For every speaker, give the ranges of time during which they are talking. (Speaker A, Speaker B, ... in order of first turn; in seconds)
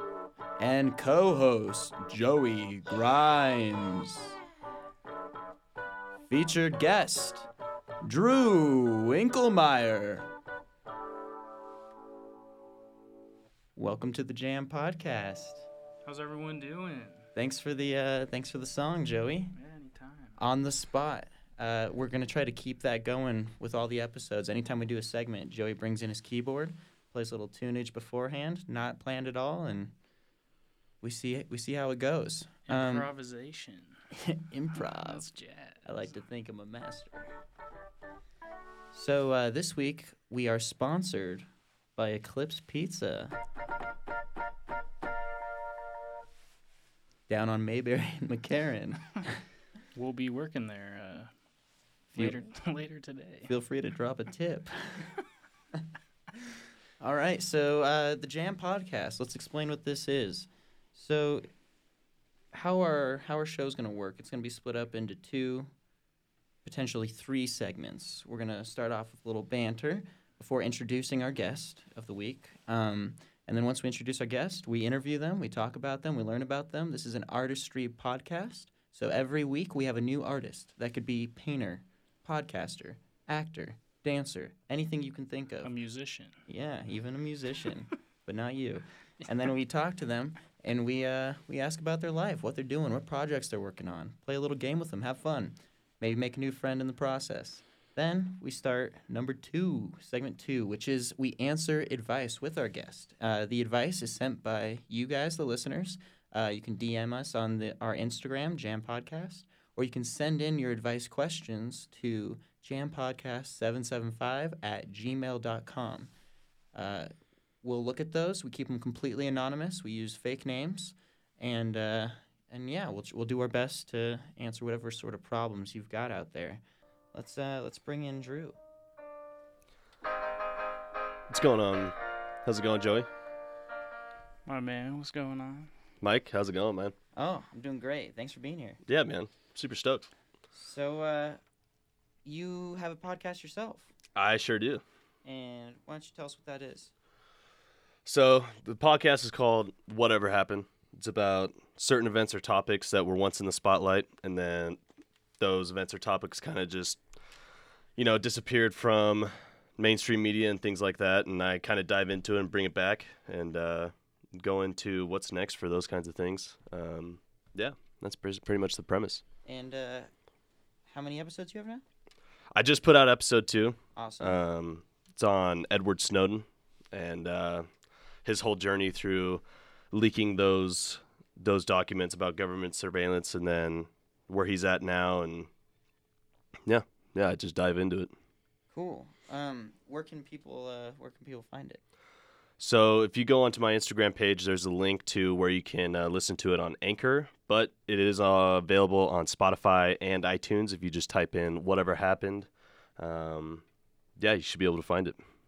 Speaker A: 0.6-4.3, 6.3-7.5, 8.0-10.3, 13.8-15.7, 17.4-19.5, 20.4-29.9, 31.0-33.1, 34.1-35.3, 35.8-37.3, 38.9-43.3, 47.3-49.4, 53.5-55.1, 57.0-61.5, 62.5-65.7, 66.6-85.7, 86.5-116.1, 116.7-117.1, 117.6-126.6, 127.1-128.6, 137.2-138.8, 140.5-141.4, 142.2-143.9, 145.2-146.9, 169.4-170.1, 170.9-171.8, 173.9-174.4, 188.7-191.8
Speaker B: 16.0-17.3, 19.5-20.4, 32.7-34.0, 34.7-36.1, 49.9-51.3, 52.1-53.5, 85.6-86.4, 134.4-135.7
Speaker C: 131.3-133.1, 136.0-136.9, 138.8-140.1, 144.1-144.8, 148.0-154.8, 155.4-157.0, 158.0-169.2, 172.5-177.7, 178.2-185.5, 186.7-188.1, 192.6-203.6, 204.2-205.2